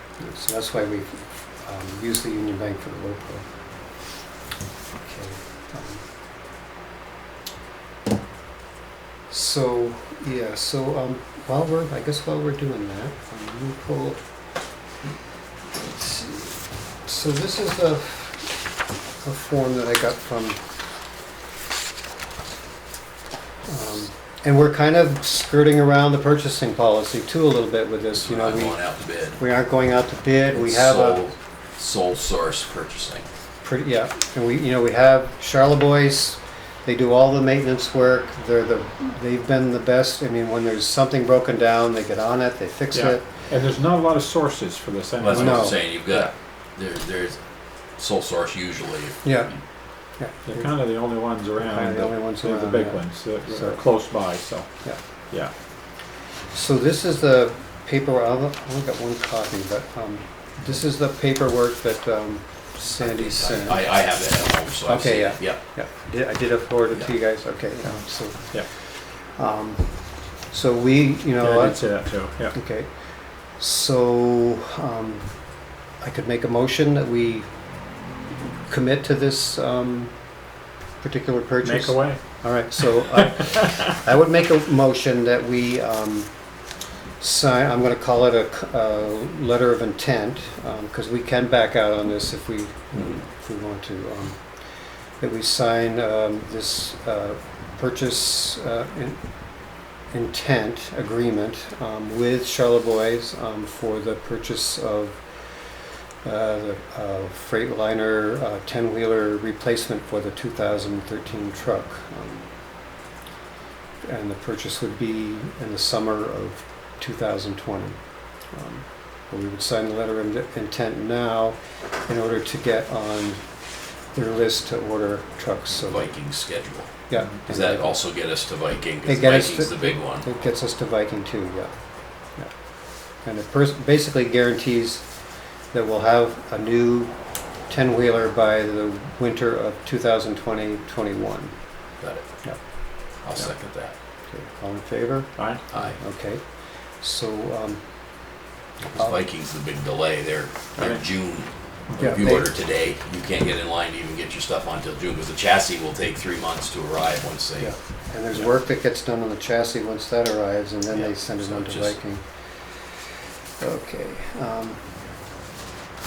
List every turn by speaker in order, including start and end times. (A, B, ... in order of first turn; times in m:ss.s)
0:00.2-0:03.5 A
0:05.0-0:06.0 A
0:09.3-0:14.2 A
0:15.8-0:18.5 A
0:19.2-0:20.6 A
0:23.7-0:31.3 A
0:28.1-0:29.4 B
0:30.5-0:33.3 B
0:33.6-0:43.3 A
0:42.9-0:46.3 C
0:45.2-0:47.4 B
0:45.3-0:45.8 A
0:48.0-0:49.6 B
0:49.2-0:49.5 A
0:50.2-0:50.7 A
0:50.5-0:54.7 C
0:51.6-0:53.8 A
0:56.5-1:04.0 A
1:03.0-1:05.6 B
1:04.9-1:08.6 A
1:09.4-1:11.9 A
1:11.4-1:12.6 C
1:12.5-1:12.9 A
1:13.6-1:15.3 A
1:16.0-1:17.5 A
1:18.7-1:20.2 A
1:21.0-1:26.3 A
1:21.6-1:22.2 C
1:27.2-1:34.4 A
1:35.2-1:39.2 A
1:40.1-1:45.2 A
1:46.2-1:52.5 A
1:54.0-1:58.0 A
1:58.5-2:03.4 A
2:04.1-2:06.1 A
2:05.7-2:06.9 B
2:07.1-2:08.0 A
2:07.5-2:10.3 B
2:09.0-2:11.7 A
2:13.2-2:15.0 A
2:15.7-2:17.1 A
2:17.7-2:21.6 A
2:23.2-2:24.0 B
2:24.3-2:26.4 A
2:25.4-2:25.6 C
2:25.7-2:26.0 B
2:27.0-2:27.8 A
2:28.8-2:37.7 B
2:31.9-2:32.2 C
2:32.0-2:32.5 A
2:37.6-2:42.2 A
2:40.9-2:42.0 B
2:43.6-2:44.8 A